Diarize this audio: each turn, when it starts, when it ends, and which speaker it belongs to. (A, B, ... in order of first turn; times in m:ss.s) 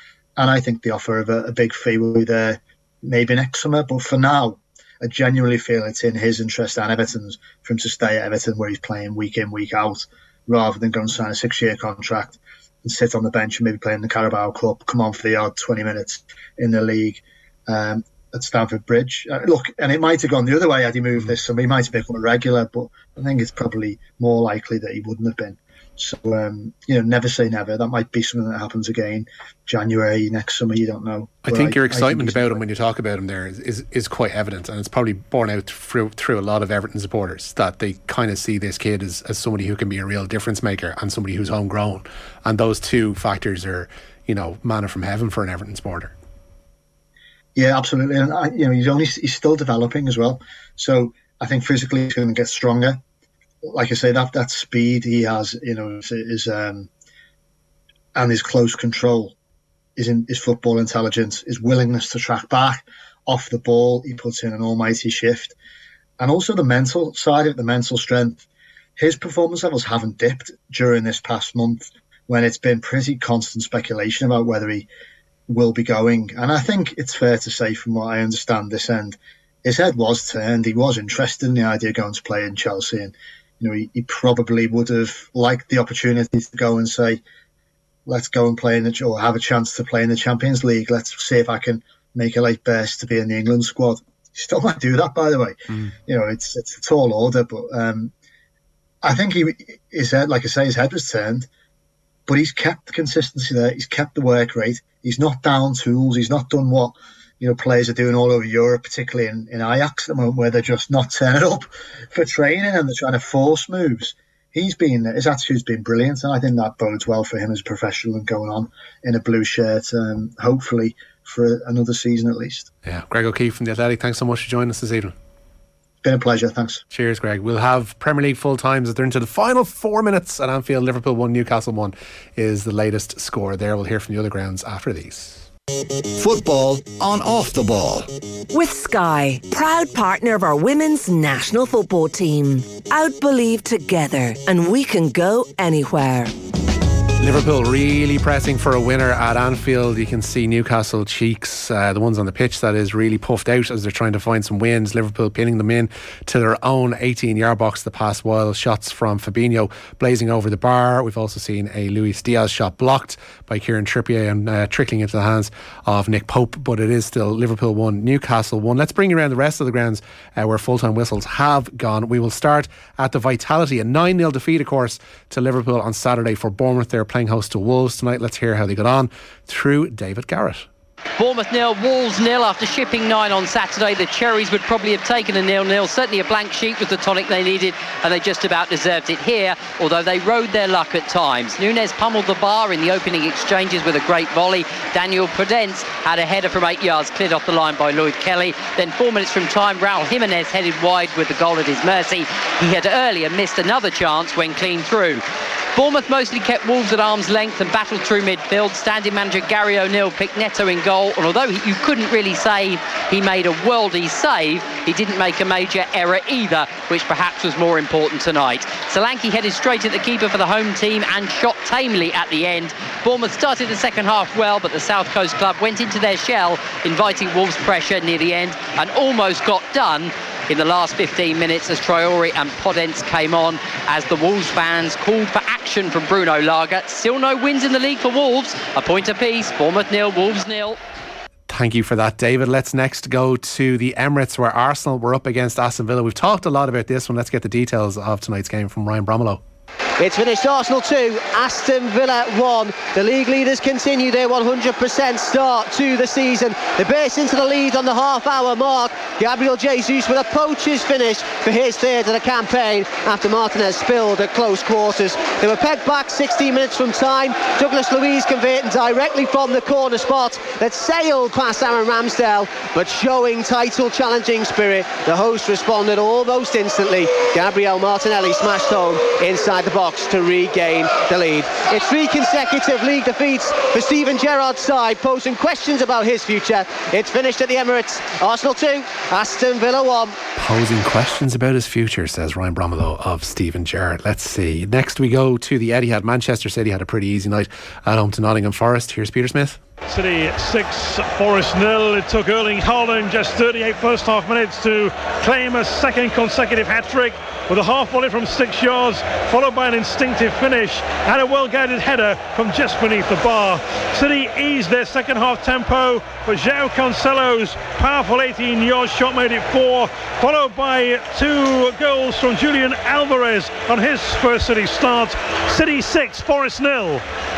0:00.4-0:32.6 A
0:31.4-0:46.1 B
0:47.6-0:53.0 A
0:53.6-0:56.9 A
0:58.2-0:59.4 A
1:00.0-1:05.6 A
1:06.2-1:08.4 A
1:09.0-1:14.9 A
1:15.5-1:27.2 A
1:28.1-1:38.1 A
1:39.0-1:41.5 A
1:42.3-2:02.7 A
2:02.8-2:05.1 B
2:06.0-2:06.8 A
2:06.9-2:15.5 B
2:16.2-2:18.1 C
2:18.5-2:26.3 D
2:27.2-3:00.7 B
3:01.2-3:25.2 E
3:25.8-4:00.8 E
4:01.5-4:09.4 B
4:10.0-4:50.2 F
4:50.4-4:59.6 B
4:59.9-5:27.0 G